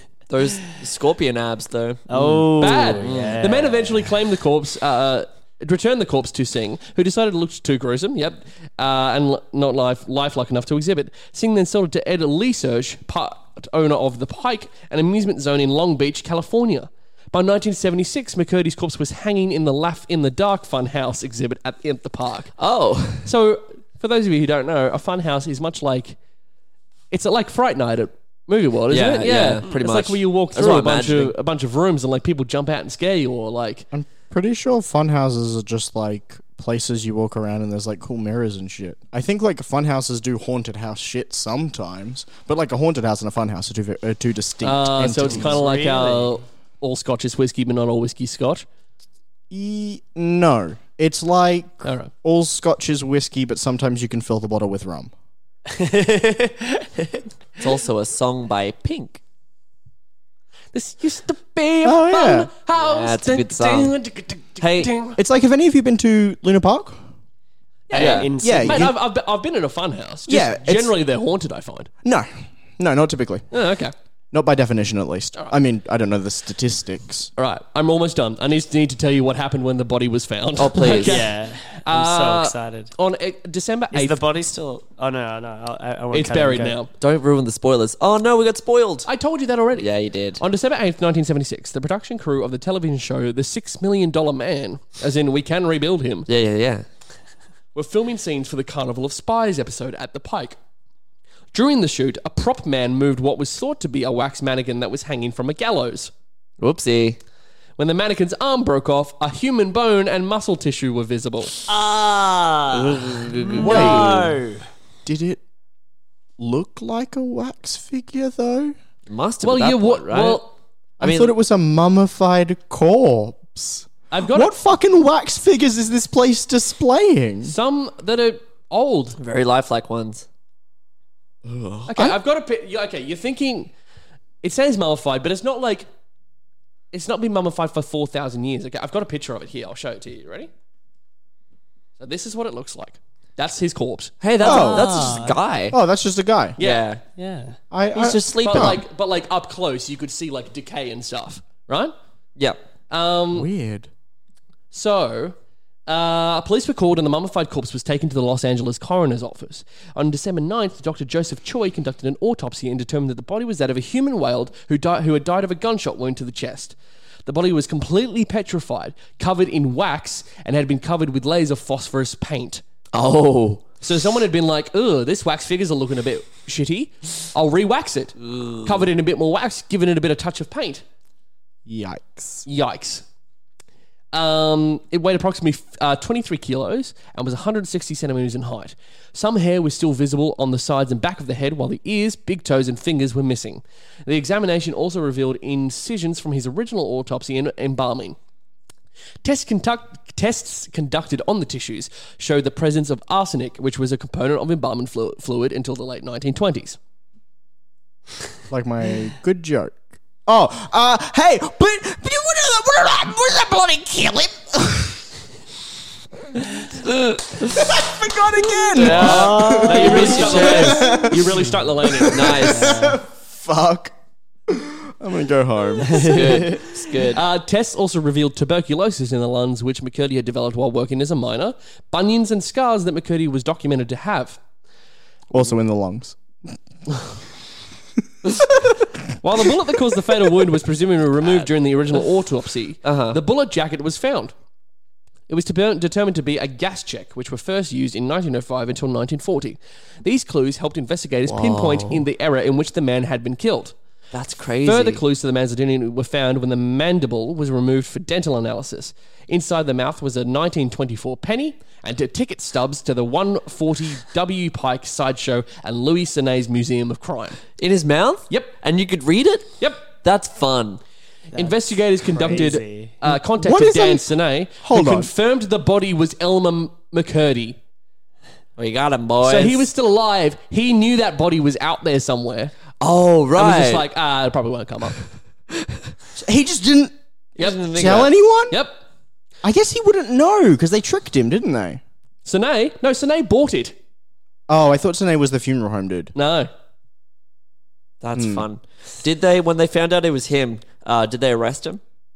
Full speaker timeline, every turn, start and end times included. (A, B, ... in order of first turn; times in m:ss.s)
0:00.3-0:02.4 A
0:02.1-0:04.1 B
0:02.2-0:22.5 C
0:02.9-0:03.4 A
0:22.6-0:23.3 A
0:23.2-0:26.2 C
0:27.1-0:33.8 C
0:28.9-0:31.3 A
0:33.9-0:45.6 D
0:44.6-0:48.6 C
0:45.3-0:46.4 B
0:49.5-0:55.1 D
0:51.8-0:52.1 C
0:55.7-0:57.2 B
0:57.6-0:59.2 A
1:00.7-1:05.2 C
1:01.8-1:02.5 D
1:02.8-1:03.9 A
1:04.6-1:04.9 A
1:05.2-1:07.0 D
1:07.9-1:11.9 C
1:07.9-1:08.9 B
1:07.9-1:08.3 A
1:08.4-1:08.9 D
1:10.3-1:11.0 D
1:12.0-1:13.5 D
1:13.5-1:13.9 C
1:14.3-1:17.3 D
1:17.4-1:24.2 C
1:20.6-1:21.3 A
1:20.9-1:22.9 B
1:23.9-1:26.8 B
1:26.1-1:26.9 C
1:27.0-1:29.1 A
1:29.0-1:36.3 C
1:29.7-1:30.4 A
1:36.3-1:36.8 A
1:37.7-1:40.6 C
1:41.5-1:46.1 C
1:46.6-1:47.2 A
1:47.8-1:51.5 C
1:51.7-1:54.6 B
1:52.7-1:54.3 A
1:53.6-1:54.2 D
1:53.6-1:54.1 C
1:55.0-1:55.4 D
1:56.4-1:58.8 D
1:59.1-2:00.4 A
1:59.4-2:00.5 C
2:01.0-2:07.5 D
2:01.0-2:01.3 A
2:04.1-2:04.5 C
2:07.4-2:09.2 C
2:09.2-2:10.2 A
2:11.5-2:11.9 A
2:11.9-2:12.2 D
2:11.9-2:13.7 C
2:14.4-2:15.9 C
2:16.9-2:20.5 C
2:22.0-2:24.1 C
2:24.2-2:25.8 A
2:24.4-2:25.1 D
2:24.4-2:25.4 B
2:25.7-2:26.6 D
2:26.6-2:26.9 C
2:26.6-2:27.0 A
2:27.2-2:27.6 B
2:27.7-2:28.8 D
2:27.9-2:28.8 A
2:28.4-2:31.9 C
2:32.9-2:33.5 C
2:33.3-2:33.9 D
2:34.7-2:35.3 C
2:35.9-2:52.6 C
2:52.9-2:53.7 A
2:53.8-3:00.8 C
2:58.3-2:58.7 A
3:01.6-3:02.4 D
3:02.4-3:03.0 C
3:04.1-3:18.2 C
3:19.2-3:26.8 C
3:28.5-3:35.0 D
3:36.8-3:37.6 A
3:37.4-3:43.9 D
3:38.7-3:41.0 A
3:38.8-3:42.6 C
3:39.0-3:40.6 B
3:42.0-3:42.8 A
3:42.4-3:43.0 B
3:44.5-3:46.6 D
3:46.0-3:47.2 A
3:47.0-3:54.4 C
3:55.3-3:56.2 D
3:59.2-4:04.3 C
4:02.8-4:03.2 A
4:05.3-4:13.7 C
4:11.3-4:12.0 A
4:14.1-4:15.0 A
4:14.6-4:27.4 C
4:27.6-4:30.8 A
4:29.6-4:29.8 C
4:31.3-4:33.0 B
4:31.4-4:37.6 C
4:33.0-4:35.1 D
4:38.6-4:39.7 A
4:39.2-4:42.5 C
4:42.8-4:43.8 A
4:43.4-4:45.1 C
4:46.2-4:46.9 D
4:47.4-4:48.1 A
4:47.4-4:47.6 C
4:47.7-4:48.6 D
4:48.5-4:48.8 C
4:49.4-4:51.8 D
4:52.2-4:53.7 C
4:54.5-4:56.1 D
4:56.1-4:56.5 C
4:58.0-5:01.8 A
4:58.2-4:58.4 D